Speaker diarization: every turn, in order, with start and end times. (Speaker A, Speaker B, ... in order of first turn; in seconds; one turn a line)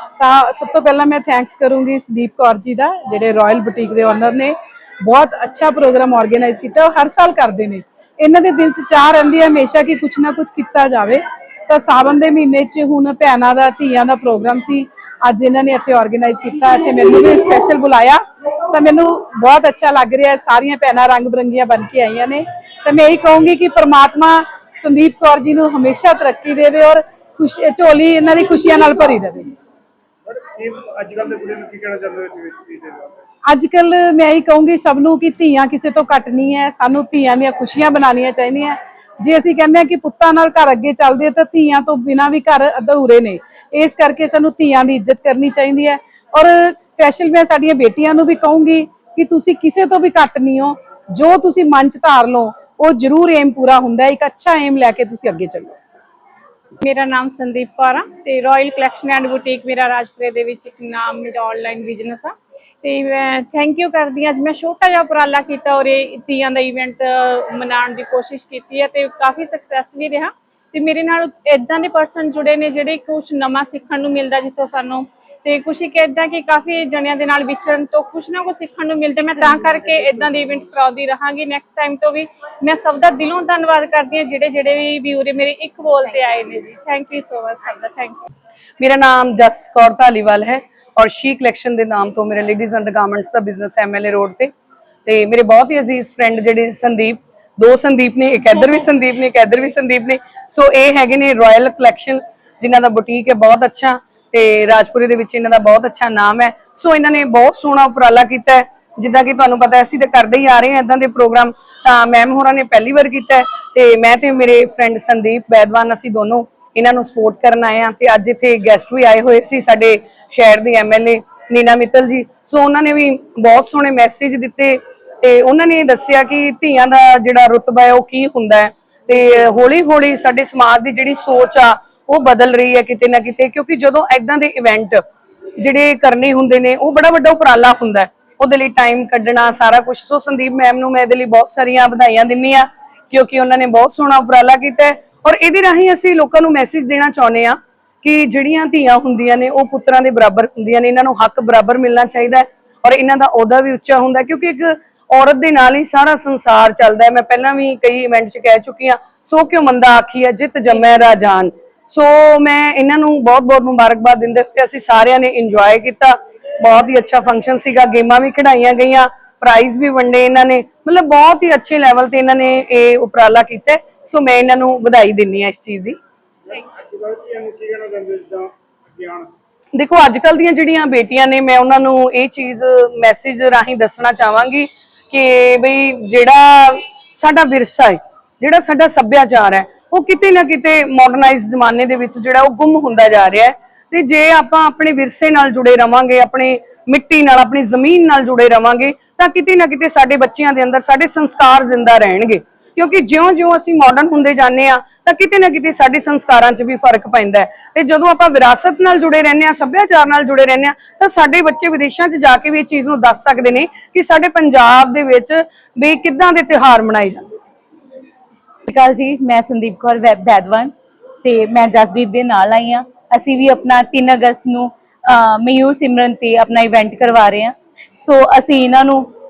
Speaker A: 0.2-29.5
Speaker B: 30.2-33.2
Speaker A: 33.5-55.8
Speaker C: 56.8-62.3
Speaker C: 62.8-88.2
Speaker B: 79.6-80.3
Speaker D: 88.8-94.5
Speaker D: 95.0-135.0
Speaker D: 135.6-176.0
Speaker B: 176.5-179.3
Speaker D: 179.7-217.3
Speaker E: 218.7-229.1